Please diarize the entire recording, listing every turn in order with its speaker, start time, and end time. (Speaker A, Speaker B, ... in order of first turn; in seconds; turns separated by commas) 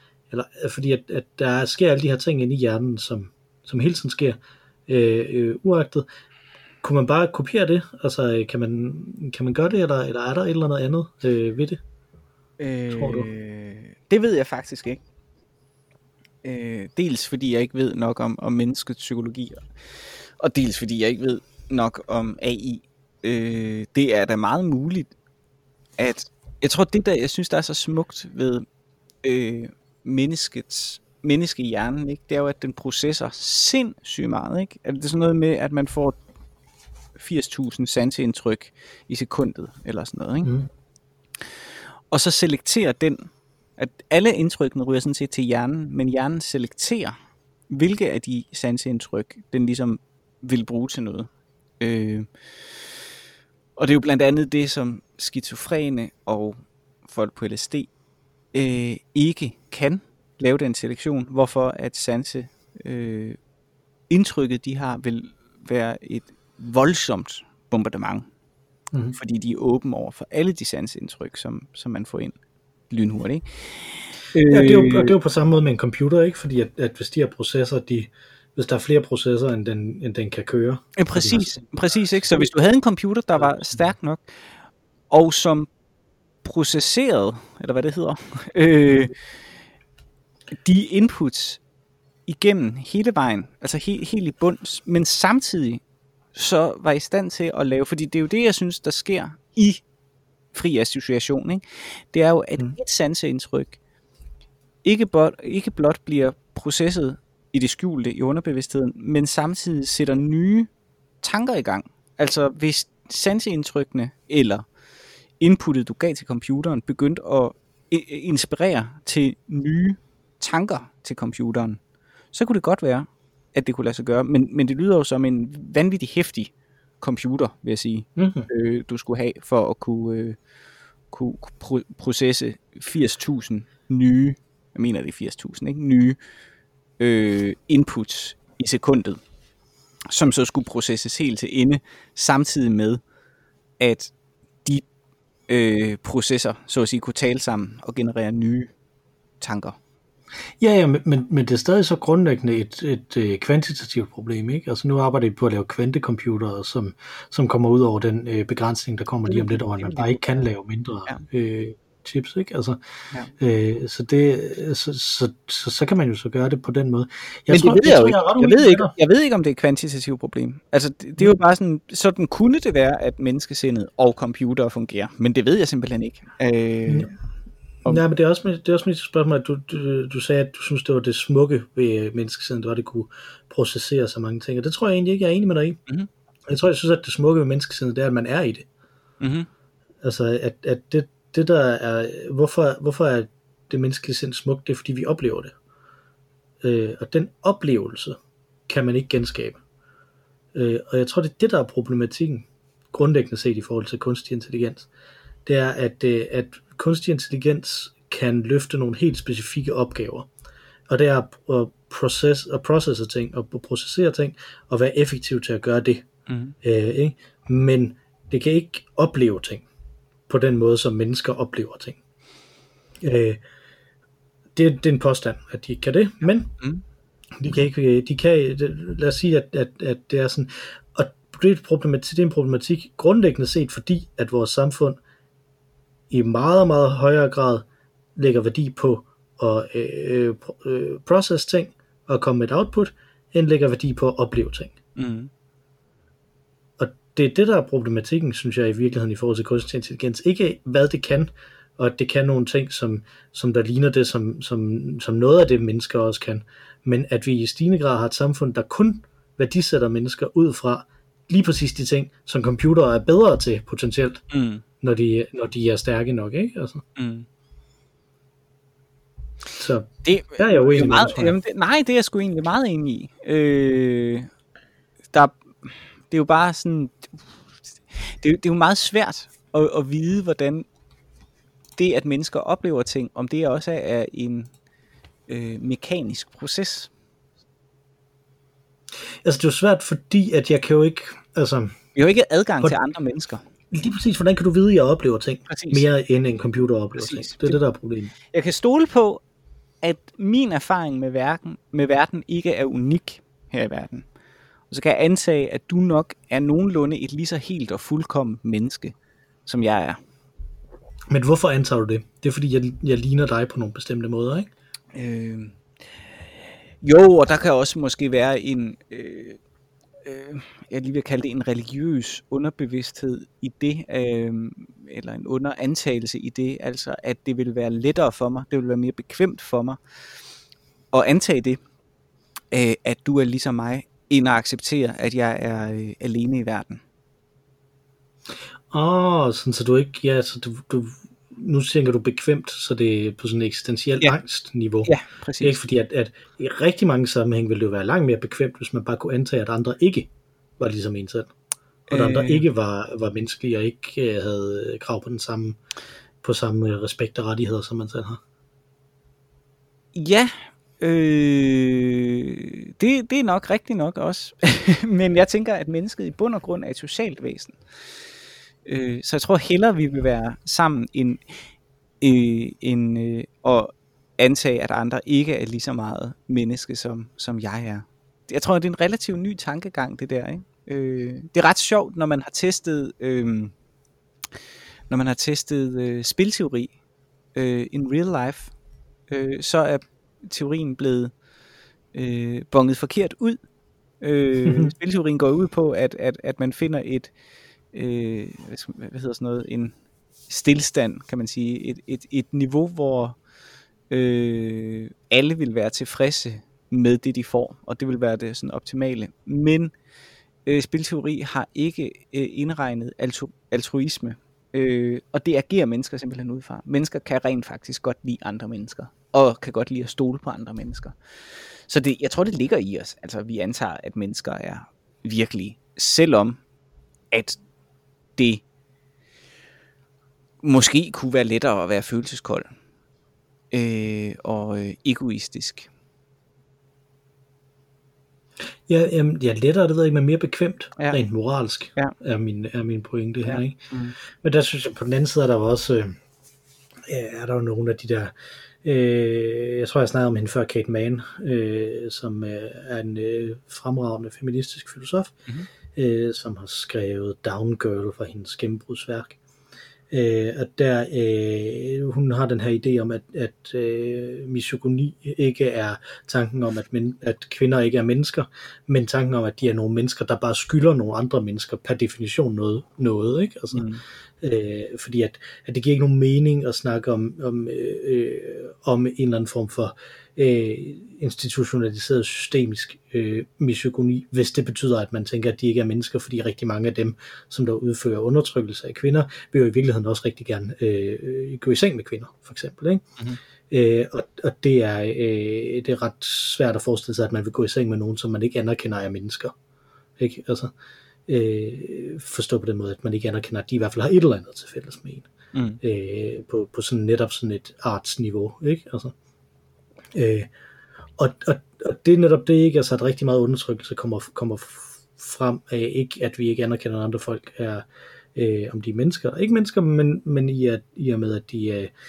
Speaker A: 0.3-6.1, Speaker A: 6.8-11.8, Speaker B: 12.6-15.0, Speaker A: 12.9-13.3, Speaker B: 16.4-25.1, Speaker B: 26.0-28.7, Speaker B: 29.2-36.2, Speaker B: 37.2-40.5, Speaker B: 42.1-47.2, Speaker B: 47.7-51.3, Speaker B: 51.8-52.7, Speaker B: 53.8-57.9, Speaker B: 58.5-63.4, Speaker B: 64.1-68.3, Speaker A: 68.9-69.2, Speaker B: 69.2-72.4, Speaker B: 72.9-75.1, Speaker A: 74.5-82.5, Speaker B: 81.0-84.5, Speaker A: 83.4-83.8, Speaker B: 85.1-85.7, Speaker B: 86.4-89.2, Speaker B: 90.6-91.6, Speaker B: 92.3-95.8, Speaker B: 96.3-99.8, Speaker B: 100.5-103.8, Speaker B: 104.8-110.7, Speaker B: 111.2-114.7, Speaker B: 115.4-121.8, Speaker B: 122.3-130.4, Speaker A: 128.2-128.5, Speaker B: 131.1-136.2, Speaker B: 137.0-139.2, Speaker B: 140.1-143.0, Speaker B: 143.8-144.9, Speaker B: 145.5-148.7, Speaker B: 149.4-149.8, Speaker A: 150.6-162.8, Speaker B: 159.3-160.4, Speaker A: 163.3-168.9, Speaker B: 167.5-177.1, Speaker A: 177.8-185.8, Speaker A: 186.5-188.7, Speaker B: 189.2-189.5, Speaker A: 190.0-195.6, Speaker A: 196.6-199.6, Speaker A: 200.5-204.9, Speaker A: 205.5-210.3, Speaker A: 210.9-216.1, Speaker B: 216.3-216.6, Speaker A: 216.6-219.7, Speaker A: 220.3-222.0, Speaker A: 223.0-223.4, Speaker A: 224.6-226.5, Speaker A: 227.4-235.0, Speaker A: 236.1-244.7, Speaker B: 245.0-245.3, Speaker A: 246.8-264.2, Speaker B: 264.3-264.6, Speaker A: 264.8-266.8, Speaker B: 267.0-267.3, Speaker A: 269.6-271.4, Speaker B: 270.0-274.3, Speaker B: 275.1-277.2, Speaker B: 277.9-280.7, Speaker B: 281.8-284.5, Speaker B: 285.3-286.9, Speaker A: 289.2-291.8, Speaker B: 291.9-293.4, Speaker A: 293.7-298.1, Speaker B: 295.5-295.9, Speaker B: 297.0-297.6, Speaker B: 298.3-299.2, Speaker B: 299.8-304.1, Speaker B: 304.7-310.0, Speaker A: 311.1-314.5, Speaker B: 314.9-315.6, Speaker B: 316.8-319.4, Speaker B: 320.1-329.8, Speaker B: 330.9-331.6, Speaker B: 332.5-336.8, Speaker A: 338.7-351.3, Speaker B: 344.9-345.6, Speaker B: 351.9-352.5, Speaker A: 351.9-355.6, Speaker A: 356.2-358.2, Speaker B: 359.9-367.6, Speaker B: 368.6-371.2, Speaker B: 372.0-383.5, Speaker B: 384.9-386.7, Speaker B: 387.4-388.5, Speaker B: 389.1-391.2, Speaker B: 391.9-393.4, Speaker B: 394.0-397.1, Speaker A: 394.5-394.7, Speaker B: 397.7-399.8, Speaker B: 400.3-403.2, Speaker B: 403.9-409.7, Speaker B: 410.5-426.4, Speaker B: 427.1-427.4, Speaker B: 428.2-428.4, Speaker B: 430.4-432.5, Speaker B: 433.5-435.7, Speaker A: 438.7-446.0, Speaker B: 443.2-444.0, Speaker A: 446.9-455.2, Speaker A: 455.7-459.2, Speaker A: 459.9-473.7, Speaker B: 473.5-473.8, Speaker A: 474.2-492.9, Speaker A: 493.5-499.3, Speaker A: 500.0-500.5, Speaker A: 501.1-505.1, Speaker B: 505.3-505.6, Speaker A: 505.6-508.9, Speaker A: 509.9-510.3, Speaker A: 511.0-521.7